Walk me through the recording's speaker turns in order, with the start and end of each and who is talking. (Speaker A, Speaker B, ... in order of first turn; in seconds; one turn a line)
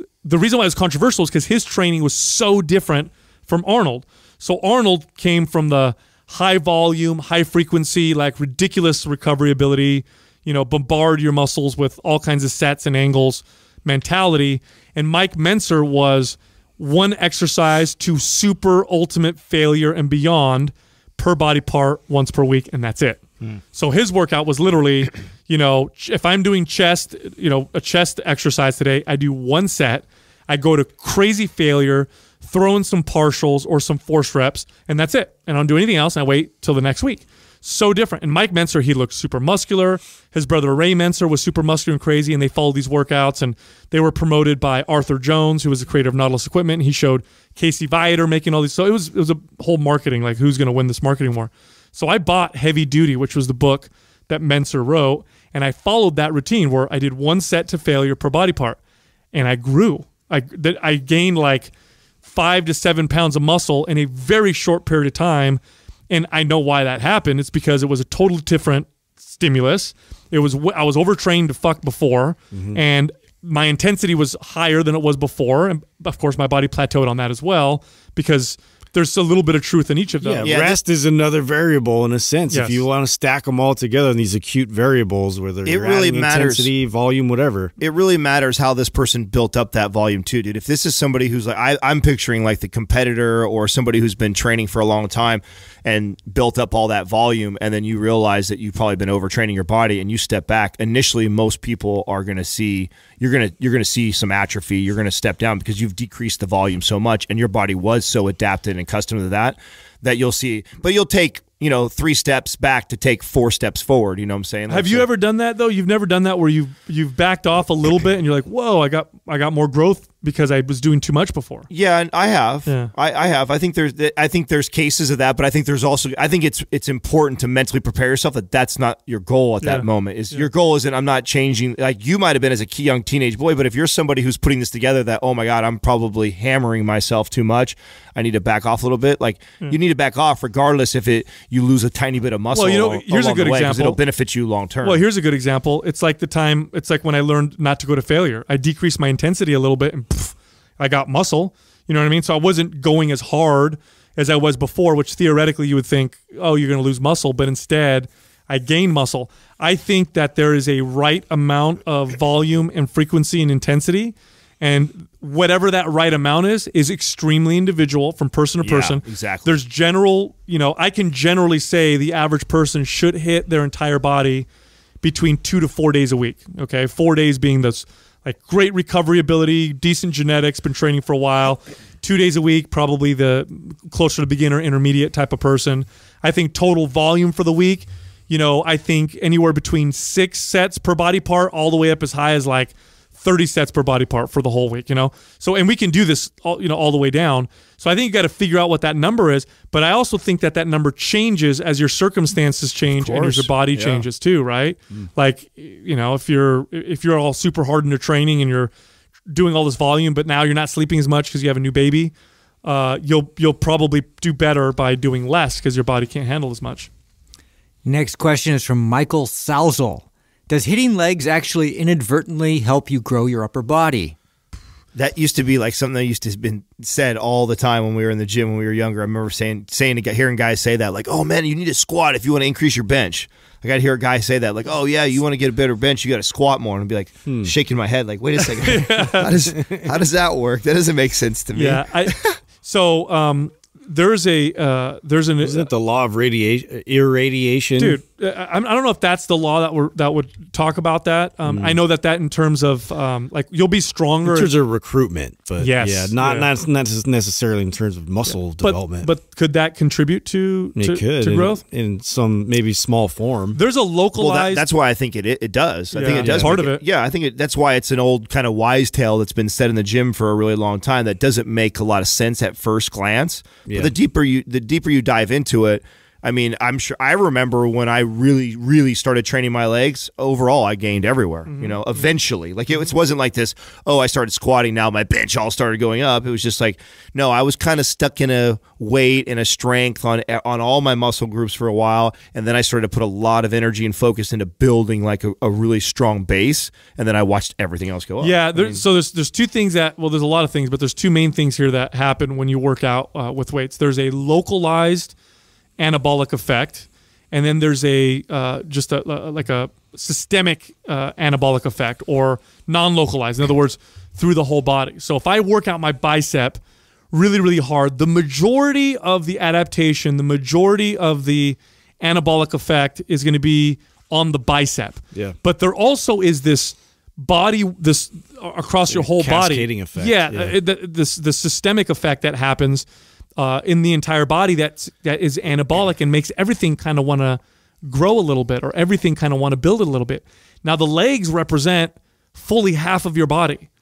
Speaker A: 0.2-58.8
Speaker A: 59.3-61.7
Speaker A: 62.2-80.5
Speaker B: 72.5-72.8
Speaker B: 80.2-87.7
Speaker C: 80.4-80.8
Speaker A: 82.5-82.8
Speaker C: 85.7-86.7
Speaker C: 87.8-115.1
Speaker A: 114.7-121.7
Speaker C: 121.7-145.1
Speaker A: 122.7-122.9
Speaker A: 129.6-130.5
Speaker A: 142.5-144.0
Speaker A: 144.8-174.5
Speaker C: 168.6-169.6
Speaker A: 175.0-208.7
Speaker C: 203.0-204.1
Speaker A: 209.3-212.1
Speaker A: 212.6-216.9
Speaker D: 217.8-224.2
Speaker C: 224.9-242.3
Speaker B: 237.3-237.5
Speaker A: 238.6-239.3
Speaker B: 239.5-240.0
Speaker A: 241.5-245.7
Speaker B: 245.4-248.0
Speaker A: 247.8-254.6
Speaker B: 251.5-251.8
Speaker B: 254.2-259.1
Speaker A: 255.6-256.5
Speaker A: 258.2-261.6
Speaker B: 260.8-263.6
Speaker A: 263.6-264.6
Speaker C: 264.2-298.8
Speaker A: 265.9-266.8
Speaker B: 266.1-266.6
Speaker B: 273.7-273.9
Speaker A: 281.5-281.8
Speaker A: 298.2-305.1
Speaker A: 305.8-332.9
Speaker B: 328.9-330.6
Speaker A: 333.4-343.7